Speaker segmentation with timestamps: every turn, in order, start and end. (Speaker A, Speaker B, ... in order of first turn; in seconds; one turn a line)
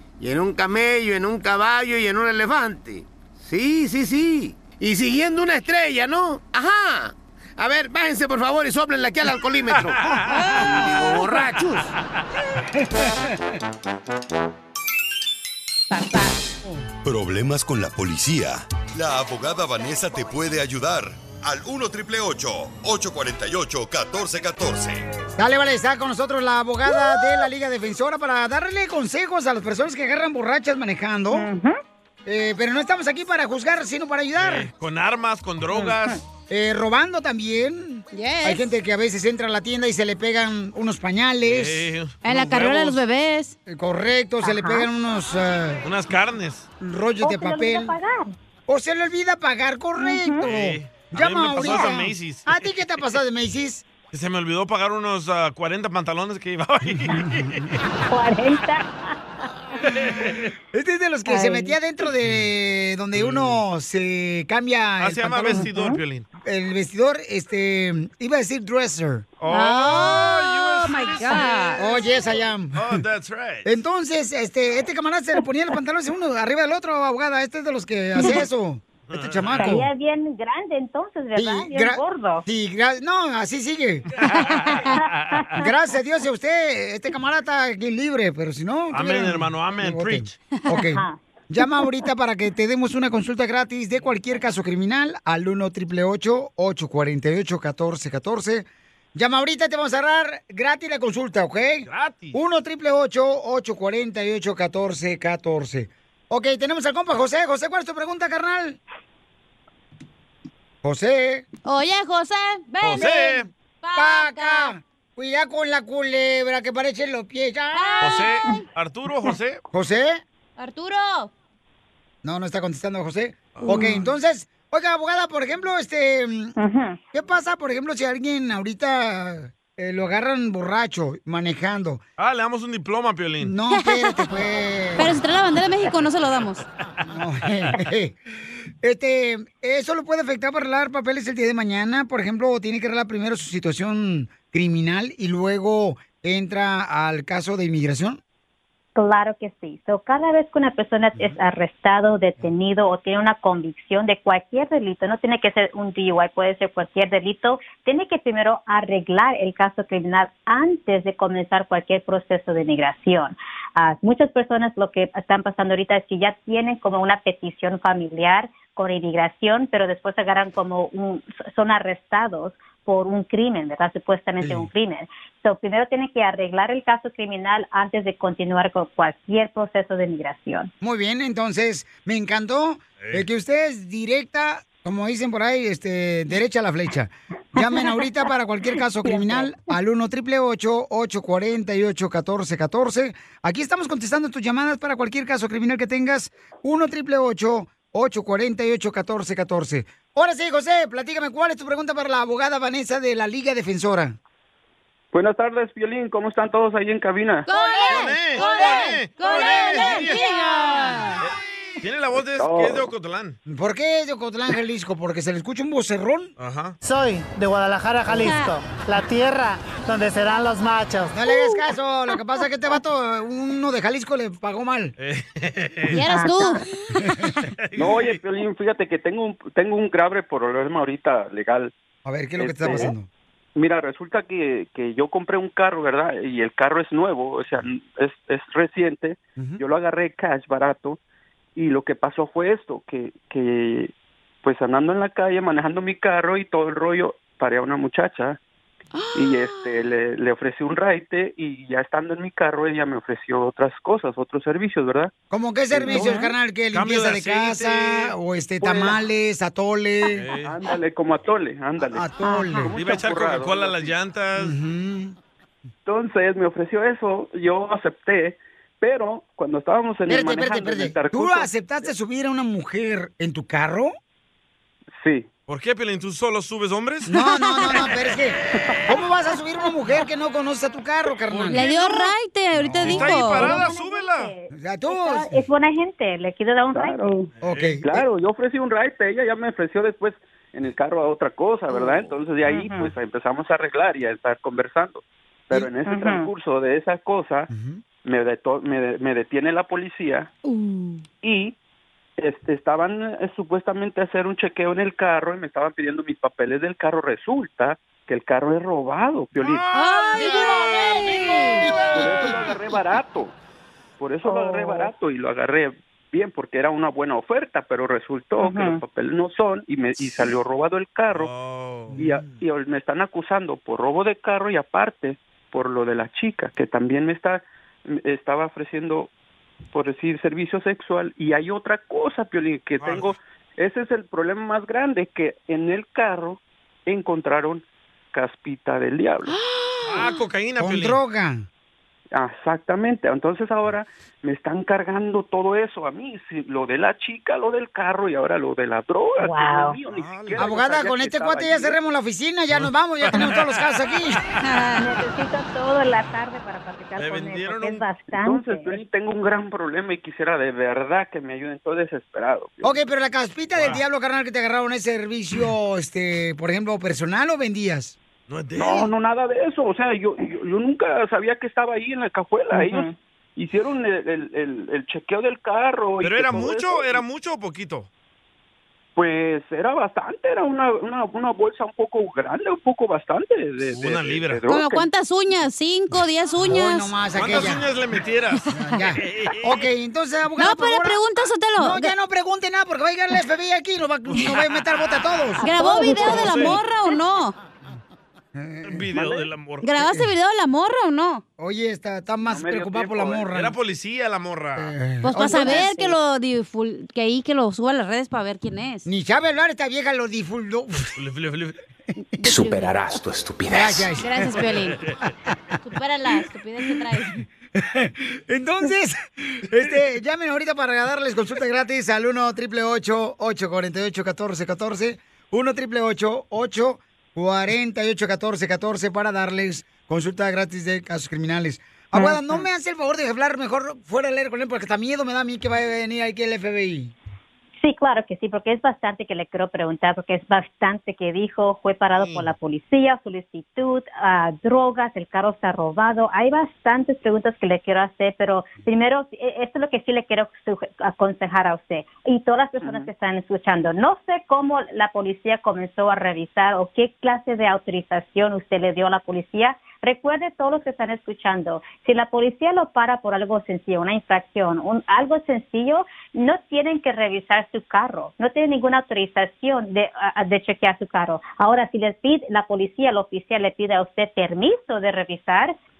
Speaker A: 0.2-9.9
Speaker B: 9.7-10.8
Speaker C: 10.3-10.8
Speaker A: 10.8-11.8
Speaker D: 12.8-13.1
Speaker C: 15.9-16.3
Speaker E: 17.0-25.0
Speaker D: 25.4-31.4
Speaker F: 31.3-31.7
Speaker D: 32.2-34.7
Speaker B: 34.4-36.2
Speaker F: 35.7-36.2
Speaker D: 36.5-41.9
Speaker C: 38.1-38.7
Speaker B: 41.4-43.0
Speaker C: 42.2-43.5
Speaker D: 43.7-45.8
Speaker F: 44.4-44.9
Speaker B: 45.8-46.7
Speaker D: 46.8-47.9
Speaker F: 47.2-48.3
Speaker D: 48.7-53.9
Speaker F: 50.0-50.4
Speaker B: 50.4-52.5
Speaker B: 54.1-57.8
Speaker D: 57.1-57.7
Speaker F: 58.0-59.1
Speaker B: 59.9-60.5
Speaker D: 60.7-65.7
Speaker F: 61.3-61.7
Speaker B: 63.1-63.6
Speaker B: 65.0-66.3
Speaker F: 65.7-66.0
Speaker D: 66.4-70.3
Speaker B: 69.4-71.9
Speaker C: 70.0-71.8
Speaker D: 71.8-72.8
Speaker B: 72.7-73.7
Speaker D: 73.6-79.9
Speaker B: 79.1-79.8
Speaker F: 79.5-82.4
Speaker D: 81.3-84.3
Speaker B: 84.2-85.6
Speaker F: 84.9-85.5
Speaker D: 85.6-108.8
Speaker B: 88.9-90.3
Speaker F: 90.9-91.2
Speaker B: 101.8-102.3
Speaker D: 110.8-111.4
Speaker C: 111.6-114.7
Speaker B: 112.8-113.5
Speaker D: 113.0-113.4
Speaker D: 113.9-118.1
Speaker C: 117.7-118.5
Speaker B: 118.0-119.6
Speaker D: 119.7-120.2
Speaker C: 120.6-121.3
Speaker D: 122.2-126.5
Speaker B: 123.5-123.9
Speaker F: 126.6-127.0
Speaker D: 127.1-132.0
Speaker B: 132.2-133.5
Speaker D: 133.4-135.1
Speaker C: 133.7-134.3
Speaker C: 135.0-136.7
Speaker D: 137.1-138.2
Speaker D: 138.8-148.2
Speaker F: 148.9-180.7
Speaker D: 174.4-174.7
Speaker D: 180.8-204.2
Speaker F: 187.6-187.9
Speaker F: 189.0-189.5
Speaker G: 205.1-207.5
Speaker C: 207.5-211.2
Speaker D: 207.5-210.1
Speaker B: 207.9-210.3
Speaker B: 211.2-213.4
Speaker G: 212.4-212.9
Speaker D: 213.5-216.3
Speaker B: 216.4-216.8
Speaker H: 216.8-221.1
Speaker C: 218.1-218.5
Speaker D: 221.1-224.9
Speaker B: 225.0-226.0
Speaker C: 225.9-227.2
Speaker B: 227.5-228.2
Speaker G: 227.8-231.7
Speaker D: 232.0-233.1
Speaker G: 232.4-232.9
Speaker G: 233.6-241.0
Speaker G: 241.5-248.4
Speaker C: 248.9-249.6
Speaker G: 249.1-255.1
Speaker D: 255.3-260.3
Speaker B: 255.7-256.1
Speaker G: 255.7-256.2
Speaker B: 256.7-258.1
Speaker G: 258.6-259.0
Speaker B: 260.1-260.5
Speaker G: 260.4-263.9
Speaker D: 261.9-262.7
Speaker B: 262.7-264.6
Speaker D: 264.4-265.1
Speaker G: 265.9-271.5
Speaker D: 270.1-273.9
Speaker G: 275.0-275.3
Speaker B: 275.5-277.1
Speaker D: 277.1-282.0
Speaker C: 277.2-277.7
Speaker B: 281.3-281.6
Speaker C: 281.5-283.4
Speaker D: 282.6-283.0
Speaker B: 282.8-284.3
Speaker F: 283.3-287.2
Speaker D: 284.5-285.4
Speaker G: 286.7-287.2
Speaker B: 287.4-287.8
Speaker D: 287.4-288.0
Speaker G: 287.8-297.5
Speaker F: 292.4-292.9
Speaker F: 295.9-296.3
Speaker D: 297.5-297.8
Speaker G: 298.0-300.3
Speaker C: 300.4-301.0
Speaker G: 301.2-301.6
Speaker G: 302.2-309.7
Speaker B: 309.4-310.5
Speaker C: 309.7-311.7
Speaker D: 310.1-312.3
Speaker G: 311.9-313.3
Speaker G: 314.0-321.3
Speaker F: 314.3-314.9
Speaker F: 318.4-318.8
Speaker B: 321.1-322.0
Speaker D: 321.9-322.3
Speaker G: 321.9-329.1
Speaker G: 329.7-339.4
Speaker B: 332.8-333.1
Speaker C: 339.3-340.1
Speaker B: 339.8-341.0
Speaker D: 340.6-341.4
Speaker G: 342.1-351.8
Speaker F: 349.2-349.8
Speaker B: 349.9-350.4
Speaker D: 350.4-354.2
Speaker B: 352.5-353.8
Speaker C: 354.4-354.8
Speaker F: 354.8-358.8
Speaker B: 357.0-357.8
Speaker G: 358.1-362.8
Speaker D: 362.6-367.9
Speaker B: 363.5-363.8
Speaker B: 368.3-368.9
Speaker G: 368.6-377.0
Speaker F: 372.5-372.9
Speaker B: 376.0-377.9
Speaker G: 378.9-384.9
Speaker B: 383.7-384.4
Speaker C: 384.5-386.9
Speaker D: 386.4-387.7
Speaker B: 387.1-389.7
Speaker D: 388.5-391.0
Speaker C: 390.4-391.9
Speaker D: 391.6-396.5
Speaker B: 394.1-394.4
Speaker C: 395.4-397.3
Speaker B: 395.9-396.6
Speaker D: 398.3-398.9
Speaker B: 398.6-399.7
Speaker C: 399.6-401.2
Speaker D: 401.4-403.5
Speaker G: 402.2-403.3
Speaker B: 403.3-404.7
Speaker D: 404.6-405.9
Speaker C: 405.0-408.9
Speaker D: 408.8-410.9
Speaker B: 410.9-411.6
Speaker C: 412.2-412.8
Speaker D: 413.5-414.3
Speaker C: 414.0-414.8
Speaker B: 414.4-414.9
Speaker C: 415.6-417.2
Speaker D: 417.5-436.9
Speaker F: 437.6-475.6
Speaker B: 441.9-442.3